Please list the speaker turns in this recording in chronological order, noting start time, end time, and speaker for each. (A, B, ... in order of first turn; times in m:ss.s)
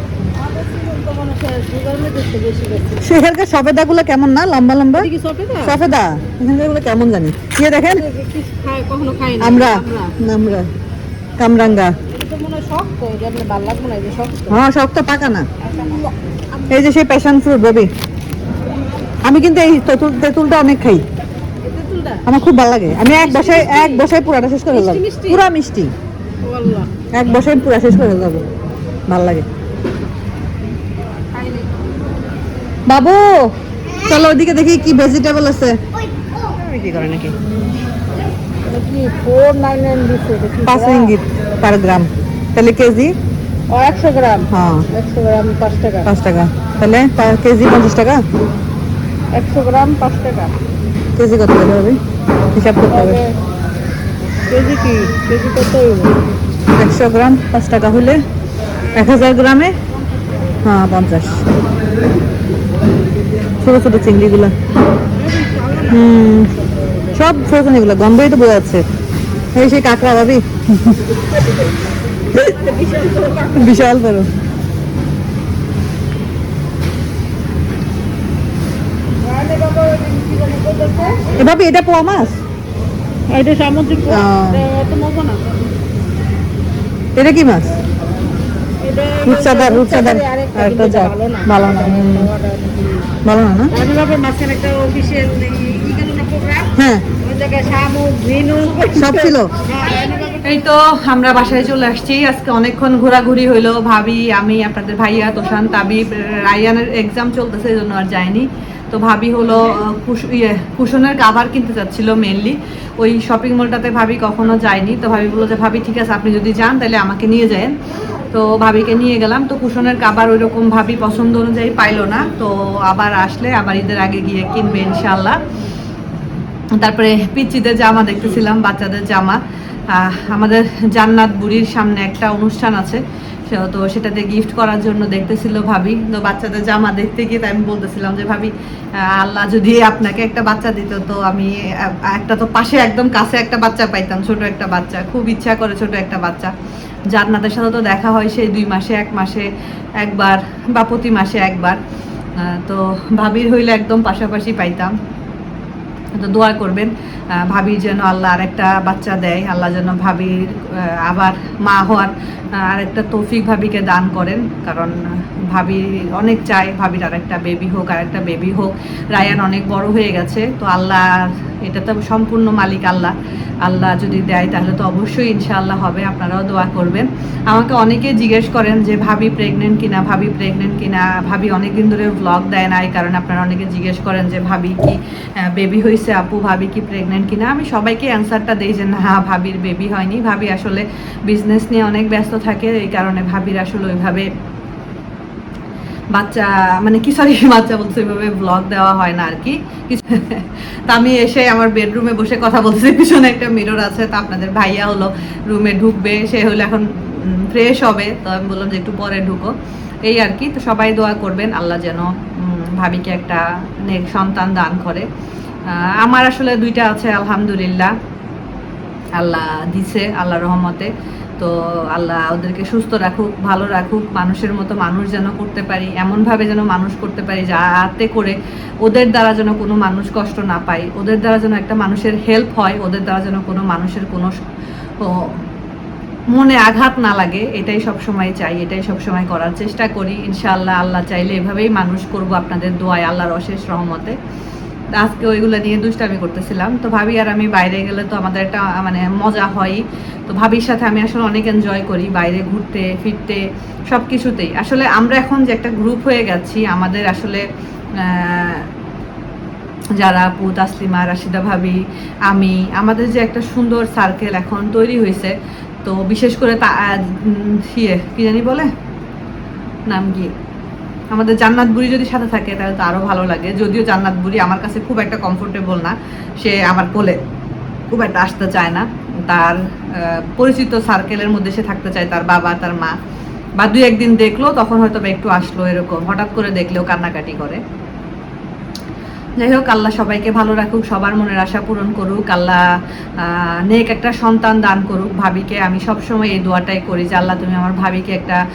0:00.3-0:03.1 A
0:03.0-0:05.1 B
0:05.0-0:05.8 A
0:05.6-0:08.0 B
0:07.8-0:10.1 A
0:09.4-0:10.7 B
0:11.4-0:11.9 B
0:12.1-0:14.6 A
0:14.5-0:15.5 B
0:15.6-0:16.8 A
0:16.7-0:17.9 B
0:19.2-0:21.0 B
0:21.6-0:22.2 A
0:22.2-0:25.9 B
0:23.0-0:24.1 A
0:24.7-0:25.4 A
0:26.4-0:26.9 A
0:27.1-0:28.4 B
0:29.1-0:29.4 B
0:31.3-0:31.8 A
0:32.9-0:33.5 B
0:34.0-0:35.8 B
0:36.6-0:37.3 B
0:38.6-0:41.2 A
0:40.6-0:43.1 B
0:43.7-0:46.1 A
0:44.5-0:44.8 B
0:46.0-0:48.2 B
0:49.3-0:50.5 A
0:51.2-0:52.0 B
0:52.5-0:53.2 B
0:52.9-0:53.3 A
0:54.5-0:56.2 A
0:56.7-0:58.2 B
0:58.9-0:59.4 A
0:58.9-0:59.7 B
1:00.6-1:01.4 B
1:03.6-1:04.5 B
1:05.1-1:06.1 A
1:05.9-1:06.5 B
1:07.1-1:08.8 B
1:09.5-1:11.0 B
1:12.3-1:13.9 A
1:13.5-1:14.3 B
1:19.2-1:21.3 A
1:21.4-1:22.4 B
1:23.3-1:25.6 A
1:24.1-1:24.6 B
1:27.1-1:27.7 B
1:28.8-1:33.1 A
1:29.2-1:32.3 B
1:33.2-1:33.7 B
1:33.7-1:40.6 A
1:36.8-1:37.0 B
1:38.9-1:39.5 B
1:40.5-1:49.7 C
1:49.8-1:52.1 B
1:51.5-1:55.8 C
1:53.2-1:54.1 B
1:55.3-1:57.7 B
1:56.4-1:57.2 C
1:58.3-2:05.4 C
2:06.8-2:09.4 C
2:09.9-2:18.5 C
2:19.1-2:21.6 C
2:22.2-2:23.8 B
2:22.2-2:26.5 C
2:27.1-2:29.4 C
2:30.0-2:31.8 C
2:32.5-2:34.9 C
2:36.2-2:36.9 C
2:37.4-2:42.1 C
2:42.7-2:45.0 C
2:45.5-2:53.1 C
2:53.6-3:14.3 C
3:16.1-3:20.3 C
3:20.9-3:29.5 C
3:30.0-3:35.0 C
3:35.7-3:37.9 C
3:39.2-3:54.3 C
3:56.3-4:04.2 C
4:05.0-4:17.4 C
4:18.0-4:18.7 C
4:20.0-4:27.0 C
4:27.7-4:28.4 C
4:28.4-4:28.7 B
4:29.9-4:30.3 C
4:31.1-4:37.2 C
4:37.9-4:43.0 C
4:43.6-4:47.6 C
4:49.4-4:52.6 C
4:53.2-4:58.4 C